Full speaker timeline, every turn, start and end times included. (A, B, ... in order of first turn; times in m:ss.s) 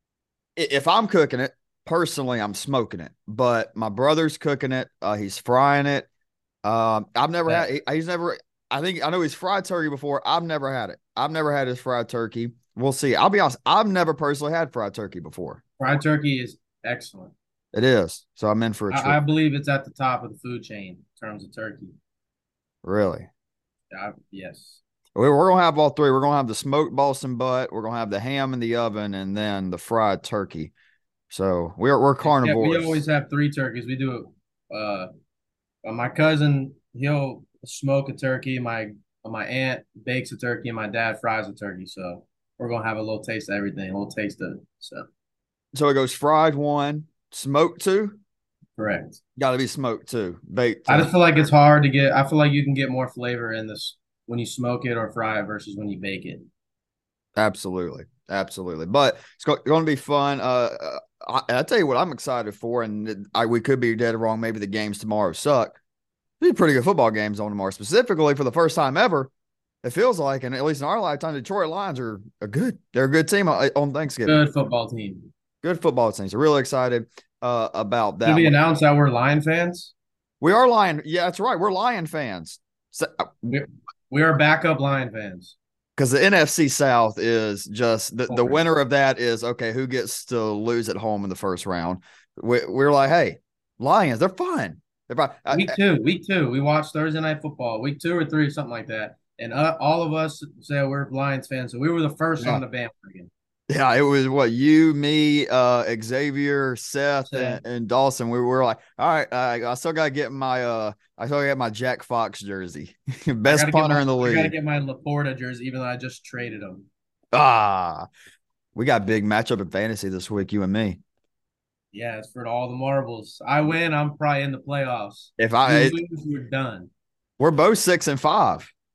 0:00.6-0:06.1 A
0:06.6-0:15.6 A
0:15.8-0:17.3 B
0:17.7-0:19.2 A
0:18.9-0:22.0 B
0:22.8-0:23.3 A
0:23.9-0:24.8 B
0:25.1-0:30.7 A
0:31.3-0:33.0 A
0:32.2-0:35.1 B
0:35.8-0:45.0 B
0:45.7-0:48.2 A
0:48.8-0:49.2 B
0:49.4-0:51.1 A
0:50.9-0:56.5 B
0:57.4-1:05.8 A
1:06.4-1:09.3 A
1:09.8-1:14.4 A
1:14.2-1:15.3 B
1:15.6-1:18.6 A
1:18.2-1:19.9 B
1:20.4-1:23.6 A
1:23.5-1:25.6 B
1:26.0-1:35.8 A
1:28.3-1:28.6 B
1:35.5-1:43.3 B
1:43.7-1:54.5 A
1:47.2-1:47.6 B
1:53.5-1:56.9 B
1:57.3-1:58.1 A
1:58.7-2:01.0 A
2:01.9-2:06.9 B
2:05.4-2:06.0 A
2:07.4-2:08.7 A